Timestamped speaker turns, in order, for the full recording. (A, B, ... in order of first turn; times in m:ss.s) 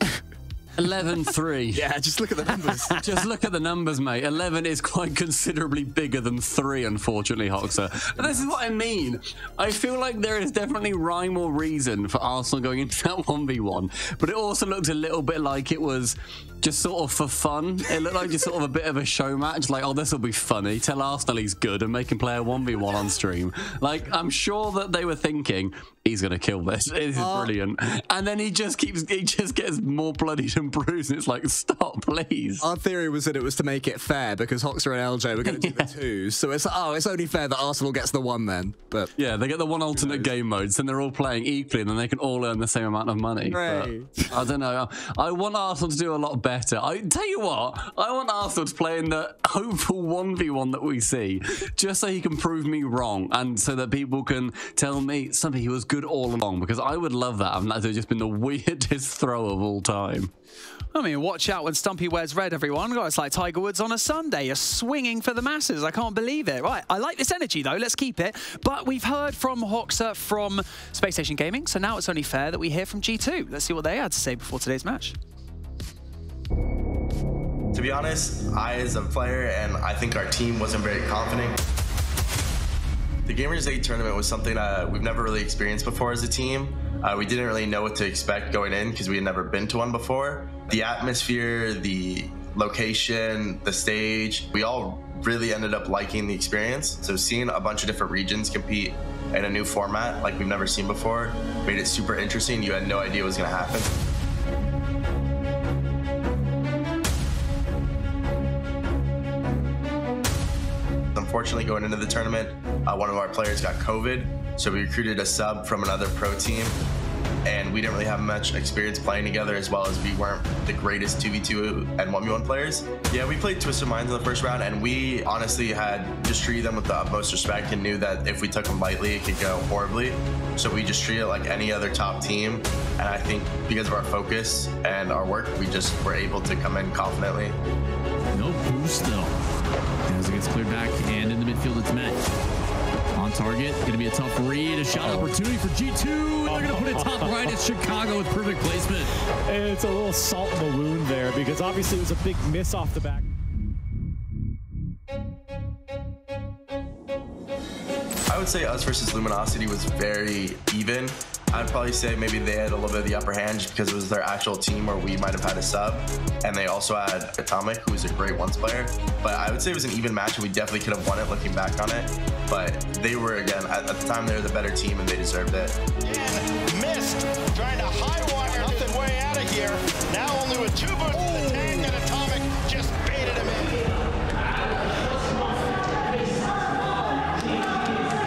0:00.8-0:01.9 A
0:01.7-0:03.1 B
0:02.9-0:32.6 A
0:27.1-0:27.5 B
0:32.6-0:39.1 B
0:35.5-0:35.9 A
0:39.2-1:00.3 A
0:39.9-0:40.3 B
0:43.4-0:44.4 B
1:00.9-1:15.2 C
1:17.7-1:21.6 D
1:23.2-1:43.9 D
1:51.1-1:56.8 D
1:57.4-2:17.6 D
2:18.4-2:19.3 E
2:20.1-2:22.2 E
2:23.2-2:29.1 E
2:25.0-2:25.3 F
2:26.4-2:27.6 F
2:29.5-2:33.2 F
2:38.3-2:55.8 D
2:56.0-3:03.8 G
2:58.5-2:58.9 F
3:01.1-3:01.9 F